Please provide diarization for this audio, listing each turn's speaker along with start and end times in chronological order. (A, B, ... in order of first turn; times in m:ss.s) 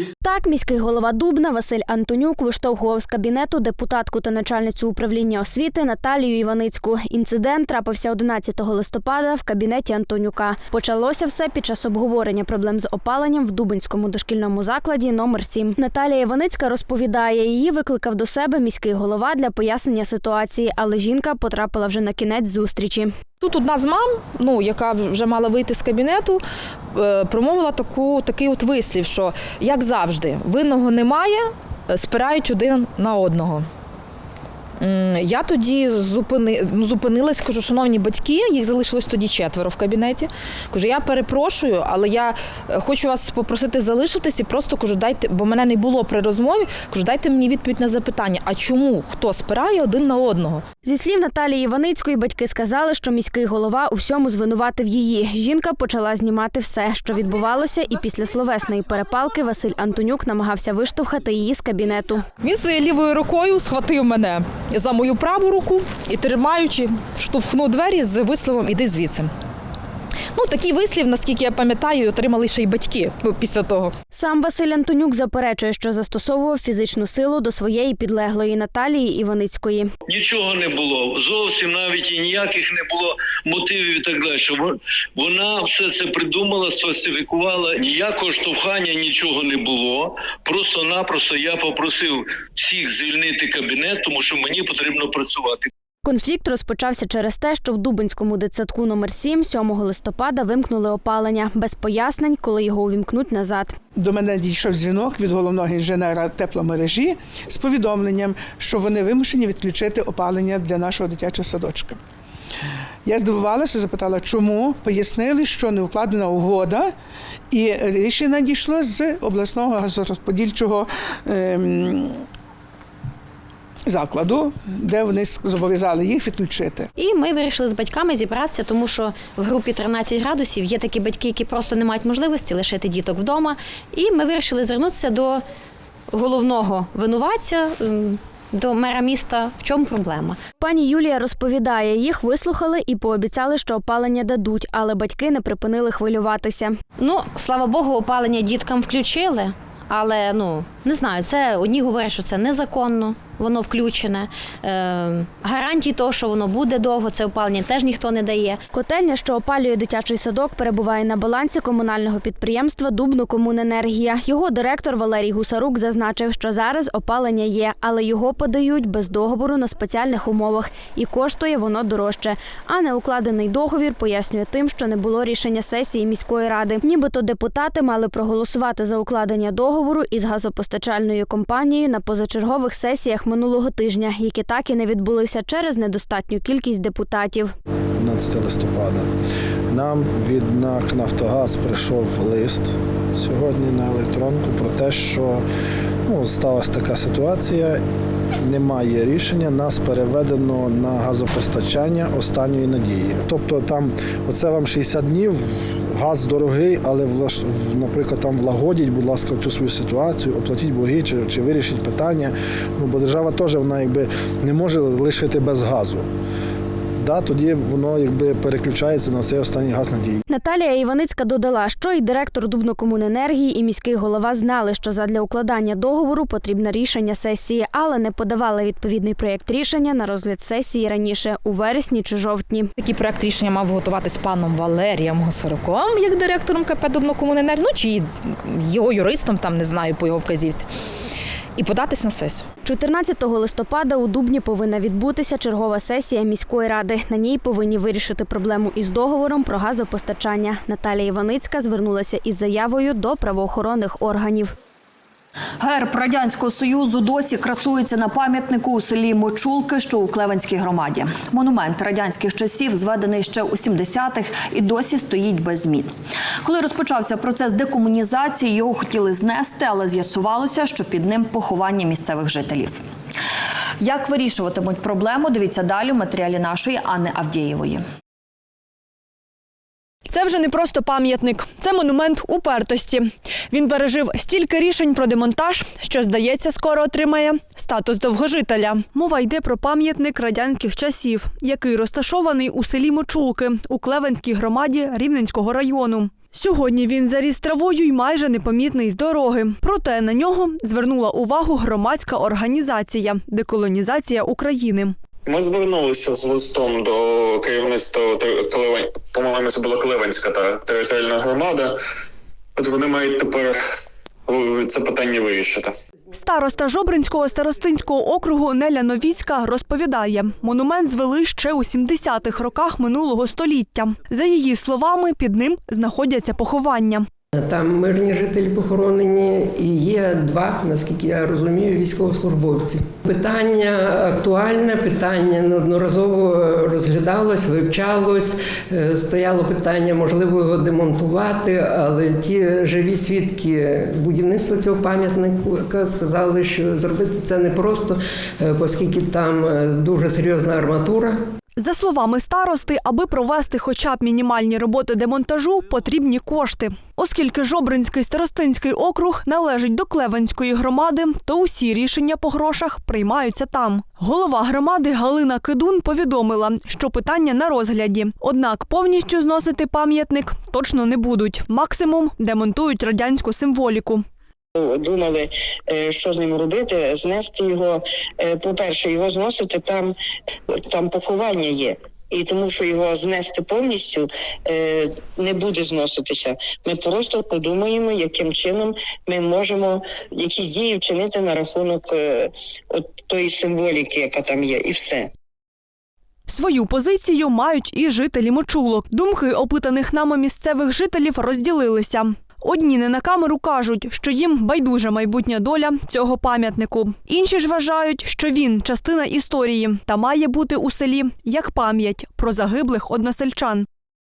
0:00.2-0:23.1 A
0:23.4-0:33.7 B
0:34.8-0:50.6 B
0:50.8-1:02.2 A
1:02.4-1:09.3 B
1:10.3-1:13.9 B
1:14.1-1:19.9 A
1:20.1-1:35.7 C
1:36.0-1:43.7 A
1:44.0-1:52.0 D
1:53.0-1:56.9 D
1:57.5-2:02.2 D
2:03.9-2:06.9 D
2:07.0-2:15.4 E
2:16.1-2:20.4 E
2:20.6-2:26.8 A
2:27.0-2:38.6 E
2:38.7-3:07.5 A
3:08.0-3:09.1 F
3:09.7-3:15.4 F
3:16.0-3:17.8 F
3:18.4-3:36.1 F
3:37.0-3:40.2 F
3:40.3-3:52.7 A
3:52.8-4:00.6 B
4:01.6-4:02.4 B
4:02.6-4:14.5 A
4:15.6-4:25.9 G
4:26.4-4:32.8 G
4:33.8-4:37.8 G
4:40.1-5:04.9 H
5:05.3-5:11.7 I
5:12.6-5:13.6 I
5:14.3-5:15.7 I
5:16.1-5:27.0 H
5:27.3-5:51.2 J
5:51.6-6:14.0 H
6:14.5-6:19.9 K
6:20.6-6:35.1 K
6:36.3-6:53.6 H